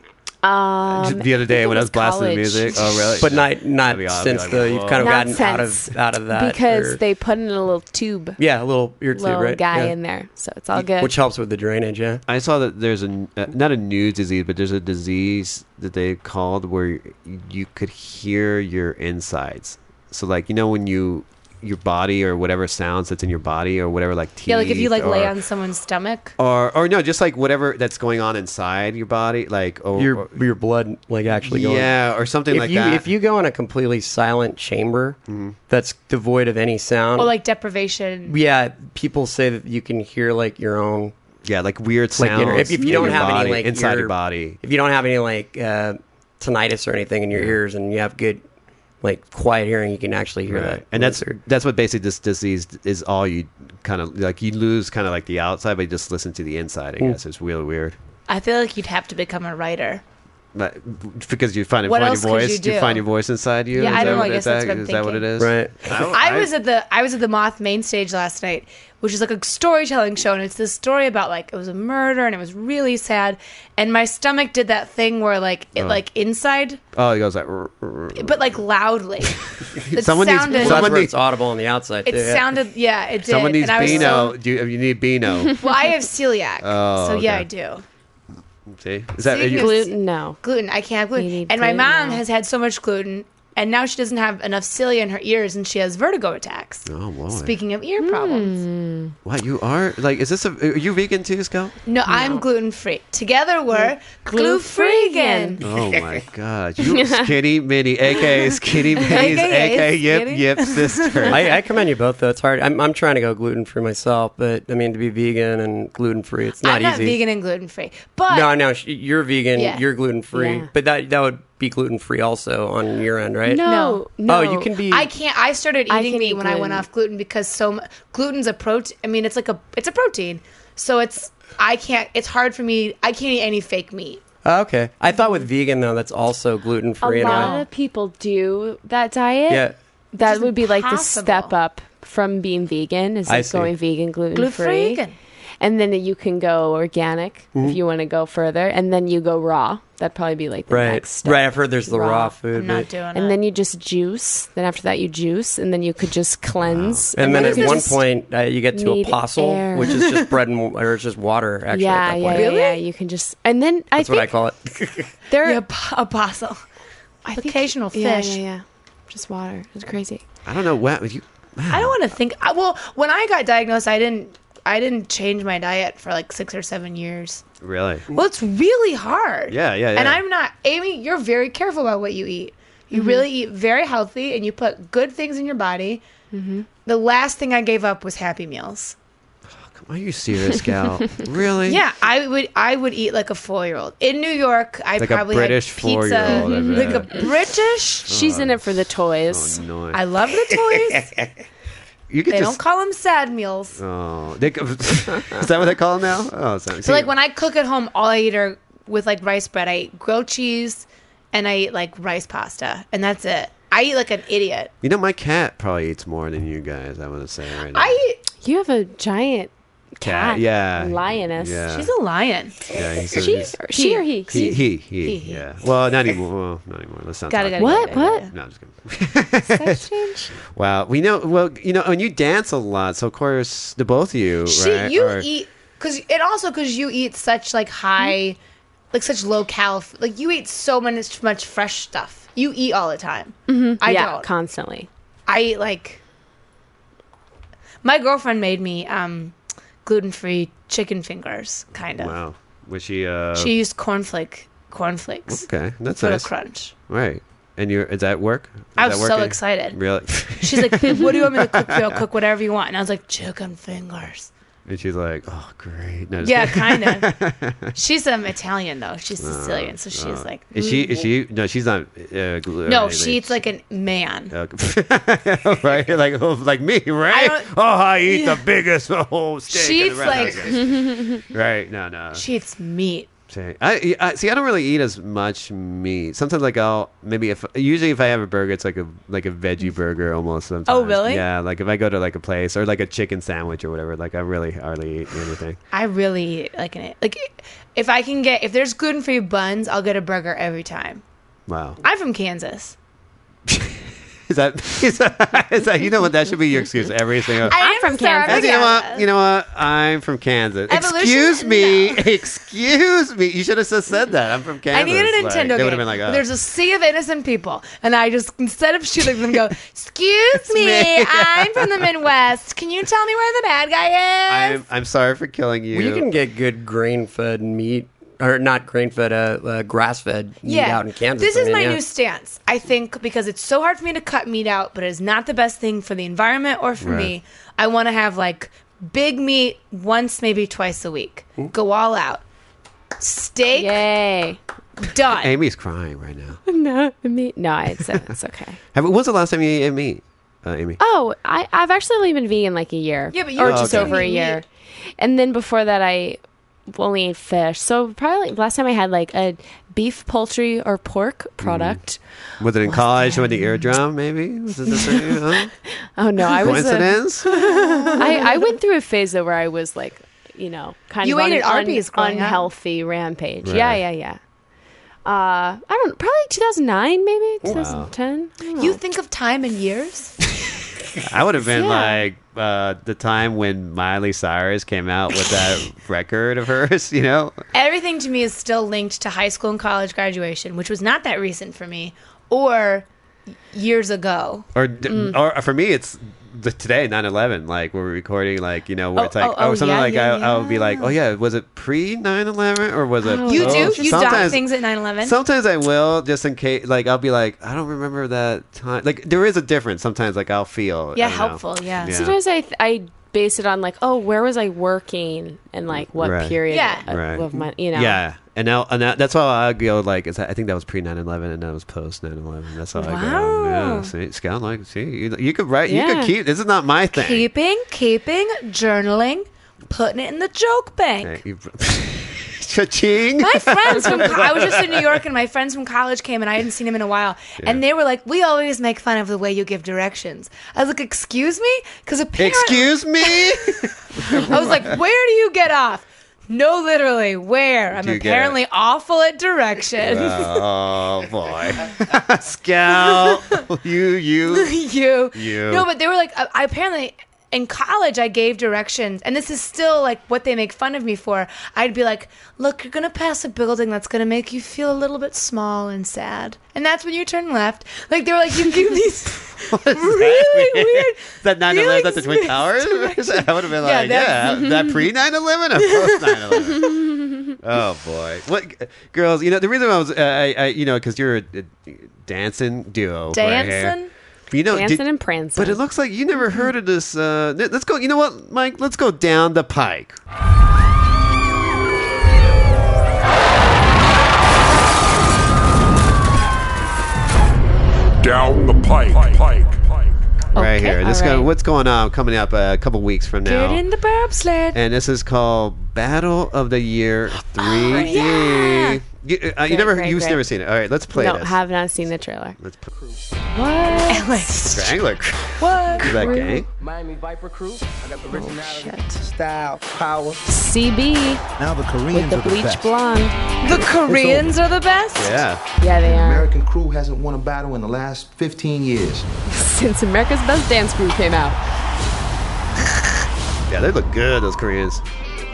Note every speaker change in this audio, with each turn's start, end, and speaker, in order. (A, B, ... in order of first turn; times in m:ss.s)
0:00.4-0:03.2 A
0:00.8-0:05.4 B
0:03.2-0:07.0 C
0:05.0-0:08.4 A
0:08.4-0:10.0 C
0:09.1-0:11.2 A
0:10.7-0:12.2 C
0:12.3-0:25.3 B
0:24.5-0:26.3 D
0:26.4-0:30.4 B
0:30.0-0:31.9 C
0:31.4-0:33.1 B
0:32.5-0:37.3 C
0:35.3-0:35.6 B
0:37.2-0:38.4 D
0:38.3-0:41.1 C
0:41.4-0:44.6 B
0:42.1-0:48.4 C
0:42.8-0:43.2 A
0:47.3-0:47.6 B
0:49.0-0:51.4 C
0:50.4-0:58.0 B
0:58.3-1:00.0 D
1:00.5-1:06.5 B
1:01.8-1:03.0 D
1:03.7-1:05.3 D
1:03.8-1:04.3 C
1:05.4-1:06.1 C
1:06.1-1:16.8 D
1:15.8-1:16.0 B
1:16.9-1:18.6 B
1:18.1-1:19.4 D
1:19.6-1:21.1 B
1:19.9-1:21.0 D
1:20.5-1:22.5 C
1:22.0-1:24.4 D
1:23.2-1:25.6 B
1:25.6-1:27.8 D
1:26.6-1:27.5 B
1:28.7-1:29.8 B
1:29.2-1:38.6 D
1:29.5-1:30.4 A
1:31.2-1:32.2 A
1:36.8-1:37.6 B
1:38.0-1:39.1 A
1:39.2-1:41.7 B
1:41.8-1:45.6 D
1:42.1-1:42.4 A
1:43.7-1:45.6 A
1:45.6-1:51.4 B
1:46.8-1:47.3 A
1:49.1-1:51.4 D
1:51.3-1:57.2 C
1:56.6-1:58.6 D
1:58.3-2:03.6 C
1:59.6-1:59.8 D
2:00.3-2:00.7 A
2:03.4-2:04.7 A
2:03.6-2:04.0 D
2:04.2-2:05.1 C
2:04.9-2:14.2 D
2:05.9-2:06.8 A
2:14.4-2:17.6 C
2:17.0-2:25.0 A
2:17.2-2:17.6 D
2:19.5-2:19.7 C
2:20.1-2:21.5 D
2:23.3-2:23.7 C
2:24.3-2:25.1 D
2:25.6-2:32.3 A
2:30.7-2:32.9 C
2:32.5-2:33.4 D
2:33.1-2:38.0 A
2:36.6-2:37.1 B
2:37.2-2:42.5 C
2:37.2-2:37.9 D
2:38.7-2:40.0 A
2:39.8-2:40.3 D
2:41.7-2:44.3 A
2:42.3-2:42.8 D
2:44.0-2:45.1 C
2:45.3-2:45.6 A
2:45.4-2:46.6 D
2:47.2-2:50.2 A
2:47.3-2:48.4 D
2:50.4-2:52.0 B
2:51.7-2:57.4 D
2:57.6-2:58.0 B
2:58.1-3:06.0 D
2:59.5-3:00.2 B
3:02.9-3:03.2 A
3:06.3-3:06.7 A
3:06.8-3:08.9 D
3:09.5-3:11.8 B
3:11.7-3:18.1 D
3:15.0-3:17.2 B
3:16.3-3:17.2 A
3:18.1-3:18.7 B
3:18.1-3:19.6 A
3:19.3-3:20.0 B
3:19.9-3:21.3 D
3:22.1-3:22.6 B
3:22.3-3:23.8 D
3:23.8-3:27.1 B
3:26.8-3:34.7 D
3:34.8-3:38.0 B
3:37.7-3:38.2 D
3:38.4-3:41.6 A
3:40.0-3:41.9 B
3:41.7-3:42.7 D
3:42.7-3:43.6 B
3:43.1-3:44.6 A
3:43.7-3:45.4 D
3:44.3-3:49.8 B
3:47.3-3:48.3 D
3:47.6-3:48.3 A
3:49.5-3:50.3 A
3:50.4-3:55.3 B
3:54.5-3:58.4 D
3:58.9-4:04.3 D
4:03.5-4:04.9 A
4:05.3-4:06.0 D
4:07.8-4:12.2 D
4:12.0-4:13.5 B
4:13.4-4:16.7 D
4:15.3-4:16.3 B
4:16.9-4:22.0 B
4:18.8-4:19.8 D
4:20.4-4:24.3 D
4:24.6-4:27.7 B
4:26.2-4:27.1 D
4:27.7-4:30.5 D
4:29.2-4:33.4 B
4:32.6-4:34.3 D
4:34.3-4:42.2 B
4:37.1-4:38.4 D
4:39.5-4:40.6 D
4:40.5-4:41.2 A
4:42.1-4:43.1 D
4:43.3-4:55.6 B
4:50.6-4:51.2 D
4:55.7-5:01.0 D
5:01.5-5:01.8 B
5:01.8-5:02.8 D
5:03.5-5:07.6 B
5:07.4-5:09.1 D
5:07.5-5:08.6 A
5:08.2-5:16.2 B
5:10.7-5:12.1 D
5:14.7-5:24.6 D
5:20.4-5:21.9 B
5:24.3-5:26.1 B
5:25.7-5:31.8 C
5:30.4-5:42.2 D
5:36.8-5:37.1 B
5:43.0-5:43.8 D
5:43.5-5:44.4 A
5:44.8-5:45.3 D
5:45.1-5:46.4 B
5:46.4-5:48.6 A
5:48.7-5:50.8 B
5:50.8-5:54.4 A
5:53.1-5:54.4 D
5:53.4-5:54.1 B
5:55.0-6:02.0 A
6:01.4-6:01.8 B
6:02.4-6:05.5 B
6:05.9-6:07.4 A
6:06.4-6:08.0 B
6:07.2-6:08.3 D
6:07.9-6:14.2 A
6:11.0-6:12.5 D
6:13.4-6:13.8 B
6:15.0-6:18.8 A
6:17.4-6:17.9 B
6:18.6-6:20.2 D
6:21.0-6:27.4 B
6:21.5-6:22.0 A
6:27.5-6:32.9 D
6:33.5-6:34.4 D
6:34.5-6:44.4 B
6:34.9-6:35.2 A
6:38.9-6:40.9 D
6:43.0-6:44.3 A
6:43.2-6:45.2 D
6:45.0-6:52.2 B
6:50.9-6:51.9 D
6:51.9-6:58.0 A
6:55.7-7:07.3 B
6:56.5-6:56.8 D
7:02.7-7:03.9 D
7:05.7-7:06.1 A
7:06.9-7:11.2 D
7:11.0-7:15.0 B
7:13.2-7:30.5 D
7:22.2-7:24.8 B
7:27.7-7:28.4 B
7:29.8-7:34.6 B
7:32.7-7:33.4 D
7:34.3-7:54.8 D
7:35.1-7:35.7 B
7:49.5-8:03.8 B
7:55.6-7:56.6 D
8:03.1-8:03.9 D
8:04.3-8:10.0 B
8:04.5-8:05.6 A
8:18.0-8:20.0 E
8:20.3-8:23.6 B
8:20.4-8:21.3 A
8:23.2-8:24.6 D
8:24.5-8:31.4 B
8:27.4-8:28.8 A
8:29.5-8:30.2 A
8:30.9-8:32.4 A
8:32.4-8:32.7 B
8:32.7-8:33.0 F
8:33.3-8:34.2 A
8:33.7-8:34.8 D
8:34.4-8:36.5 B
8:35.4-8:36.2 D
8:35.8-8:36.4 A
8:36.0-8:38.8 F
8:38.1-8:38.8 A
8:38.2-8:40.2 G
8:40.2-8:41.2 A
8:41.4-8:42.7 G
8:41.9-8:43.2 A
8:43.4-8:45.2 D
8:43.4-8:44.4 G
8:44.9-8:45.4 B
8:45.6-8:46.3 A
8:45.8-8:49.1 G
8:49.3-8:51.4 A
8:53.5-8:54.8 B